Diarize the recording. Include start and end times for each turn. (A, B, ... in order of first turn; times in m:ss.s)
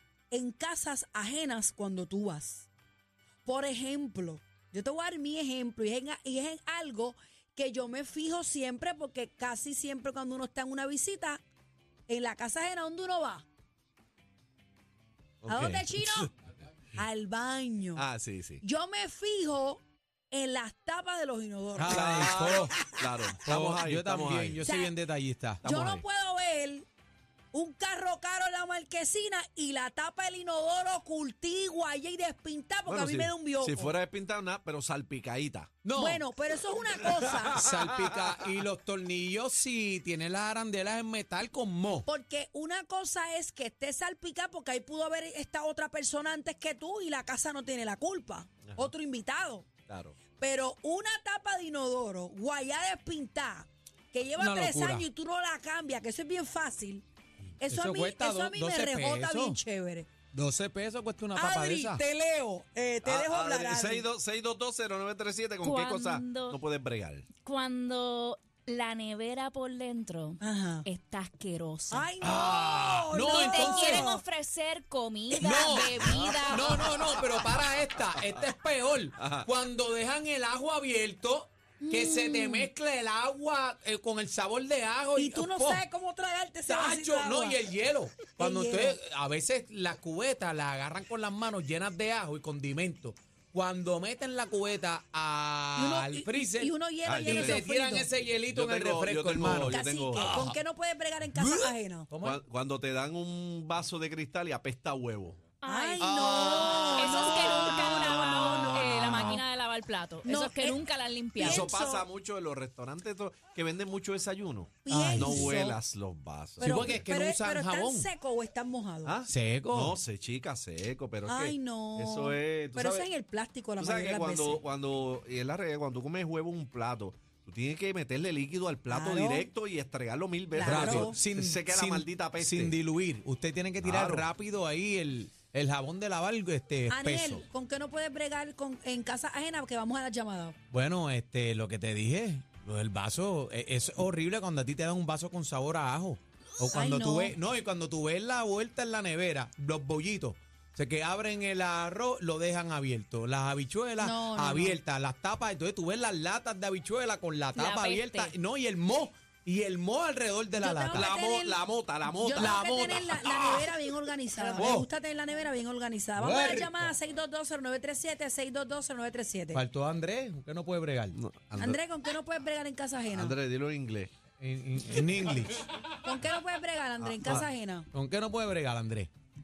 0:00.3-0:02.7 A
0:03.4-0:11.4 A
0:12.1-0:13.4 A
0:15.4-0:16.3 B
0:15.5-0:16.3 A
0:16.9-0:18.0 A
0:18.0-0:18.6 B
0:18.6-0:23.0 A
0:21.8-0:22.8 C
0:21.9-0:24.6 B
0:23.4-0:25.6 C
0:24.6-0:24.9 A
0:25.6-0:26.0 B
0:25.6-0:26.9 A
0:27.5-0:33.9 A
0:32.9-0:35.8 B
0:35.8-0:36.2 C
0:35.9-0:37.6 A
0:37.0-0:42.0 C
0:42.0-0:49.7 A
0:49.9-0:50.2 B
0:50.4-0:57.0 A
0:54.4-0:55.0 C
0:57.6-1:00.1 A
0:57.7-0:59.6 C
1:00.3-1:02.0 C
1:01.3-1:04.1 A
1:03.0-1:07.3 B
1:05.6-1:06.6 D
1:07.4-1:12.0 D
1:10.4-1:10.8 A
1:11.9-1:14.2 A
1:12.2-1:14.1 C
1:13.2-1:16.7 D
1:15.4-1:25.8 C
1:16.0-1:17.4 B
1:19.2-1:19.5 B
1:21.8-1:22.7 A
1:25.2-1:27.6 A
1:26.7-1:40.6 C
1:28.4-1:29.0 A
1:35.8-1:38.1 A
1:37.0-1:37.6 B
1:38.5-1:40.4 B
1:39.6-1:42.1 A
1:41.4-1:42.4 C
1:42.2-1:45.4 B
1:45.6-1:51.7 D
1:45.6-1:49.4 A
1:46.0-1:49.3 C
1:50.2-1:50.8 A
1:51.4-1:52.0 A
1:51.4-1:57.0 B
1:54.8-1:55.8 A
1:54.9-1:55.5 C
1:56.6-1:58.1 C
1:56.6-1:59.1 A
1:59.0-2:03.1 B
1:59.3-2:00.0 C
2:01.2-2:04.6 A
2:03.8-2:12.7 B
2:08.9-2:09.5 A
2:10.5-2:11.2 A
2:10.6-2:17.4 C
2:13.8-2:14.3 B
2:16.9-2:20.5 A
2:20.7-2:41.1 C
2:26.7-2:27.3 A
2:34.0-2:34.8 A
2:37.5-2:38.3 D
2:40.6-2:49.6 A
2:40.9-2:43.1 B
2:42.3-2:43.8 C
2:44.4-2:44.7 D
2:44.6-2:44.9 C
2:46.2-2:46.9 C
2:49.5-2:51.2 C
2:51.1-2:51.8 B
2:51.6-2:53.3 A
2:53.1-2:54.1 B
2:54.4-2:55.6 C
2:56.0-2:57.9 A
2:57.0-2:57.4 B
2:57.9-2:59.1 C